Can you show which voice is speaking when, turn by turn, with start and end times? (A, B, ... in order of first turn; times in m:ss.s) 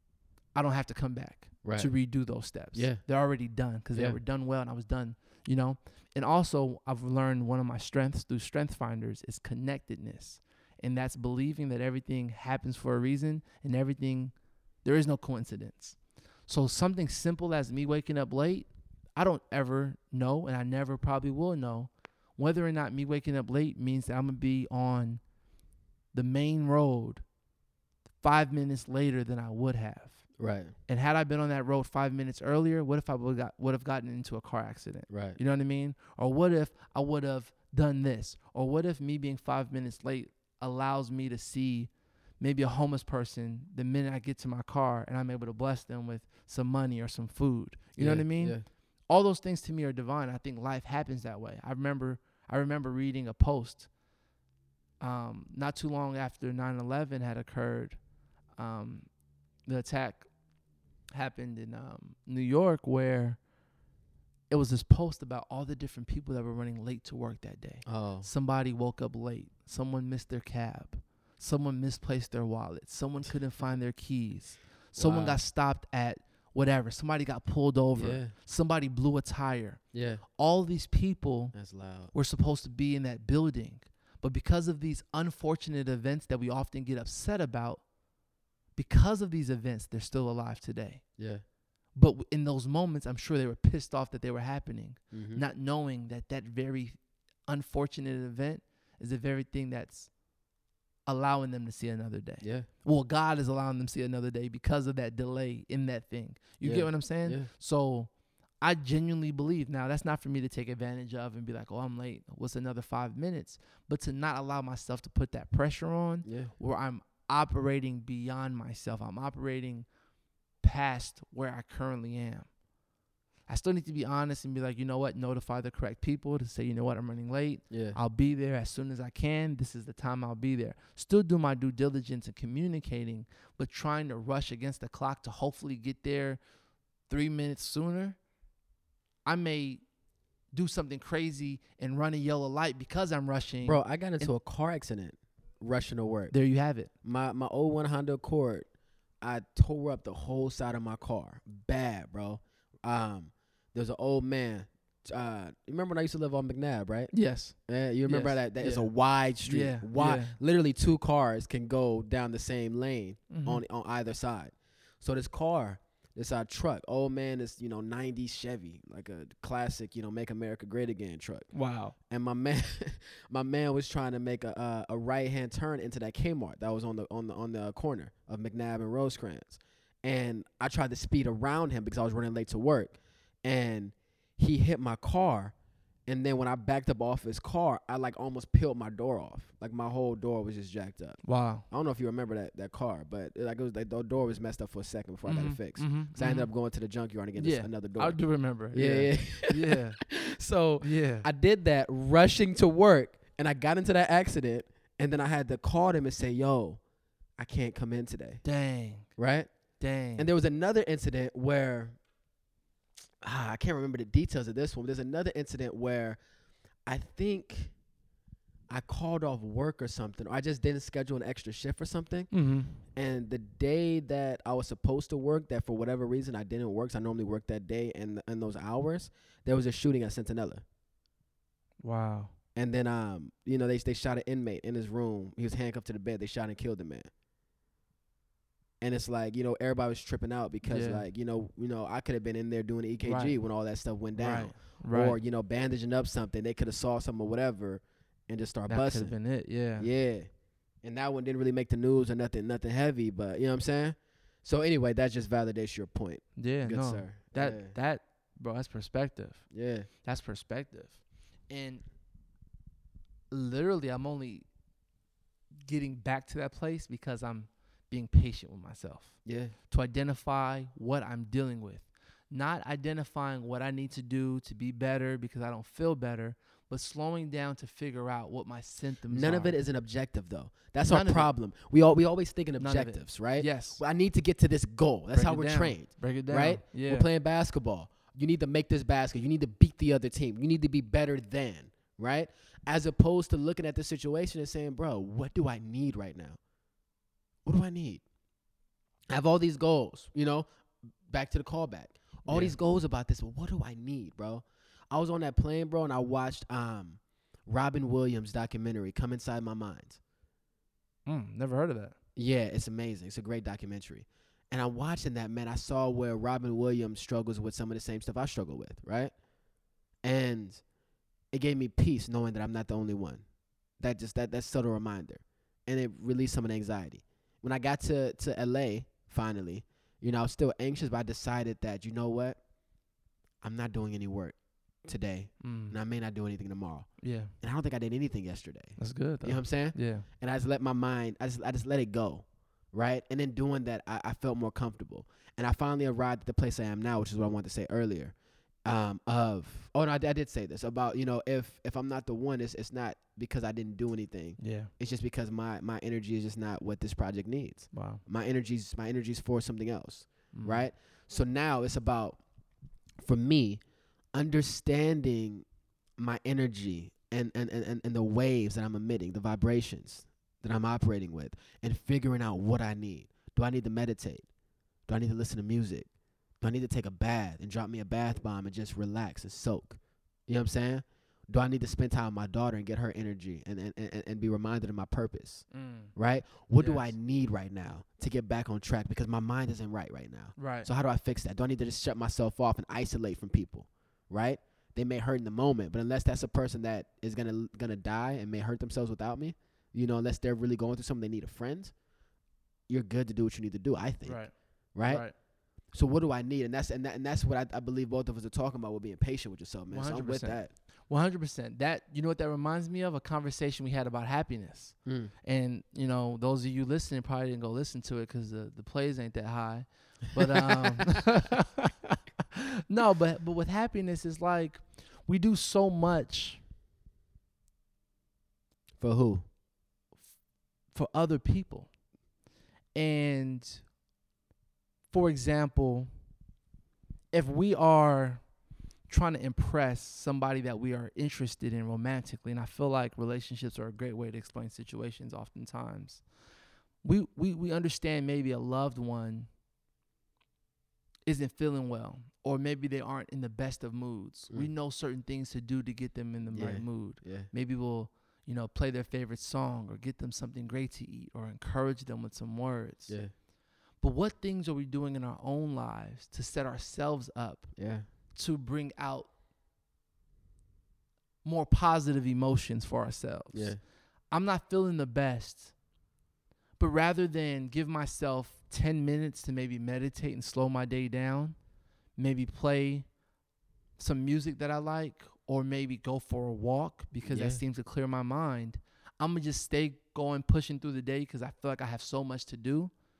0:00.5-0:25.2 A
0:01.6-0:03.0 B
0:26.1-0:27.2 A
0:28.2-0:30.3 A
0:30.4-0:30.7 B
0:30.9-0:53.9 A
0:35.1-0:35.4 B
0:48.0-0:48.6 B
0:55.0-0:58.0 A
0:58.6-0:59.1 A
0:59.6-1:00.3 A
1:01.1-1:03.4 A
1:04.5-1:21.5 A
1:07.8-1:08.3 B
1:15.0-1:15.4 B
1:17.9-1:18.3 B
1:19.9-1:20.2 B
1:21.5-1:22.1 B
1:22.1-1:27.9 A
1:28.7-1:31.1 A
1:31.2-1:31.4 B
1:31.9-1:40.2 A
1:35.1-1:35.4 B
1:41.0-1:59.9 A
1:42.4-1:42.7 B
1:46.6-1:47.5 B
1:56.2-1:56.5 B
2:00.6-2:02.6 A
2:03.5-2:16.4 A
2:07.7-2:08.0 B
2:17.1-2:18.2 A
2:19.2-2:19.8 A
2:20.5-2:24.3 A
2:23.6-2:26.4 B
2:26.3-2:26.9 A
2:27.0-2:28.7 B
2:29.2-3:05.5 B
2:37.1-2:38.9 A
2:39.4-2:40.4 A
2:43.3-2:43.6 A
2:51.5-2:51.9 A
3:06.1-3:26.8 B
3:11.2-3:11.6 A
3:15.2-3:16.5 A
3:17.4-3:20.0 A
3:20.8-3:21.3 A
3:27.4-3:28.4 B
3:28.4-3:29.1 A
3:29.2-3:29.5 B
3:29.8-3:30.3 A
3:30.1-3:32.0 B
3:33.2-3:36.2 B
3:36.8-3:37.7 B
3:38.7-3:50.6 B
3:42.3-3:42.8 A
3:51.8-3:52.3 A
3:52.5-3:57.1 B
3:58.8-4:09.2 B
4:00.6-4:01.1 A
4:03.0-4:03.4 A
4:04.1-4:05.2 A
4:08.7-4:09.9 A
4:09.8-4:10.3 B
4:10.8-4:17.7 B
4:16.4-4:21.8 A
4:19.5-4:19.9 B
4:23.3-4:24.5 A
4:25.6-4:39.6 A
4:29.2-4:29.5 B
4:39.1-4:56.4 B
4:40.9-4:41.3 A
4:42.6-4:43.8 A
4:45.1-4:47.1 A
4:57.4-4:58.0 B
4:59.1-5:00.5 B
5:01.1-5:10.0 B
5:02.2-5:02.6 A
5:11.0-5:11.9 A
5:12.2-5:19.1 B
5:20.0-5:20.6 B
5:21.3-5:23.2 B
5:23.8-5:32.4 B
5:33.4-6:02.2 B
5:35.4-5:35.8 A
5:37.0-5:37.3 A
5:38.8-5:40.1 A
5:54.4-5:54.7 A
5:57.7-5:58.0 A
6:00.3-6:00.7 A
6:03.0-6:03.6 B
6:04.1-6:05.4 B
6:06.0-6:14.2 B
6:14.9-6:15.9 B
6:16.4-6:41.7 B
6:25.5-6:25.9 A
6:26.6-6:26.9 A
6:30.4-6:30.7 A
6:42.7-6:45.1 B
6:44.0-6:45.1 A
6:45.7-6:50.5 B
6:49.7-7:01.6 A
6:54.8-6:55.1 B
7:02.7-7:06.4 A
7:08.8-7:09.3 B
7:10.7-7:11.7 A
7:12.7-7:13.7 A
7:14.9-7:15.9 A
7:17.1-7:18.3 A
7:18.9-7:26.1 A
7:26.8-7:29.3 A
7:31.0-7:43.0 A
7:36.3-7:37.3 B
7:42.9-7:43.1 B
7:43.8-7:47.6 A
7:47.6-7:47.8 B
7:48.1-7:49.1 A
7:51.2-7:55.5 A
7:53.3-7:53.6 B
7:56.6-8:01.4 A
8:02.0-8:02.9 A
8:03.8-8:12.7 A
8:07.0-8:07.4 B